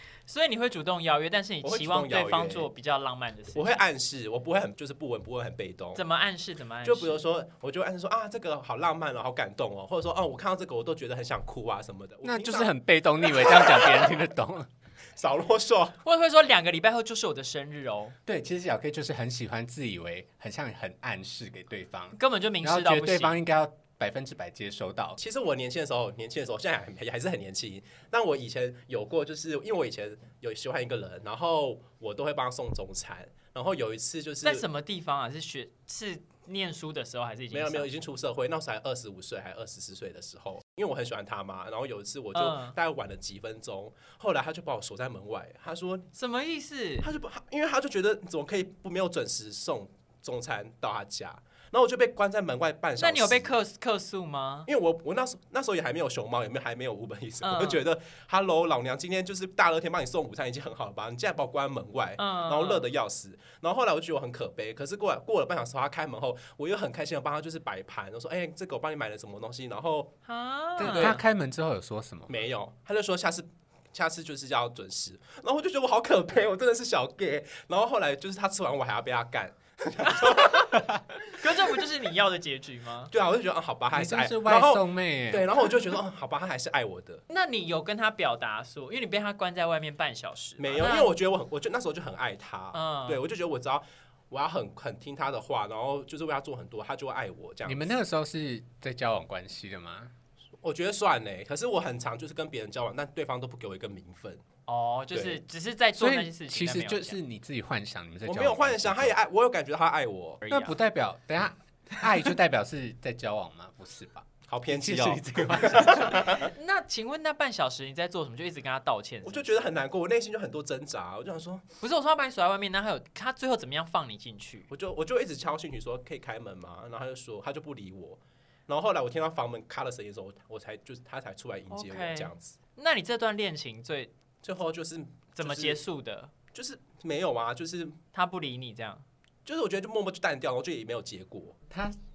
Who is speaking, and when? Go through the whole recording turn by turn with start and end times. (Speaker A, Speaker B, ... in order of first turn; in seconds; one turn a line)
Speaker A: 0.3-3.8
Speaker B: 1.6-2.7
Speaker B: 3.5-6.0
Speaker A: 6.0-7.2
Speaker B: 6.8-14.1
Speaker C: 12.2-14.7
Speaker B: 15.2-16.0
Speaker A: 16.0-18.2
Speaker C: 18.3-25.2
Speaker A: 22.2-23.4
Speaker B: 25.2-34.6
Speaker A: 34.4-37.9
Speaker B: 37.5-46.1
Speaker A: 42.4-42.8
Speaker A: 46.1-47.1
Speaker B: 47.0-53.5
Speaker A: 53.0-54.7
Speaker B: 54.7-70.1
Speaker A: 57.4-57.9
Speaker A: 62.2-62.9
Speaker A: 70.3-71.2
Speaker C: 70.8-72.4
Speaker B: 70.8-71.2
Speaker B: 72.3-80.9
Speaker A: 80.1-80.5
Speaker A: 81.2-83.1
Speaker B: 83.1-87.2
Speaker C: 83.9-85.6
Speaker A: 87.3-91.1
Speaker B: 90.6-98.0
Speaker A: 92.7-93.2
Speaker C: 97.7-100.1
Speaker B: 100.6-104.4
Speaker A: 104.7-107.2
Speaker B: 105.1-105.4
Speaker C: 106.0-109.2
Speaker B: 108.2-110.5
Speaker A: 110.5-110.7
Speaker C: 110.5-116.3
Speaker B: 114.5-116.5
Speaker A: 116.2-119.5
Speaker B: 119.2-121.7
Speaker A: 121.8-124.7
Speaker B: 124.7-132.6
Speaker A: 131.7-134.1
Speaker B: 134.4-135.8
Speaker A: 135.4-136.3
Speaker B: 136.5-138.0
Speaker A: 138.1-139.1
Speaker B: 139.5-141.6
Speaker C: 141.7-142.0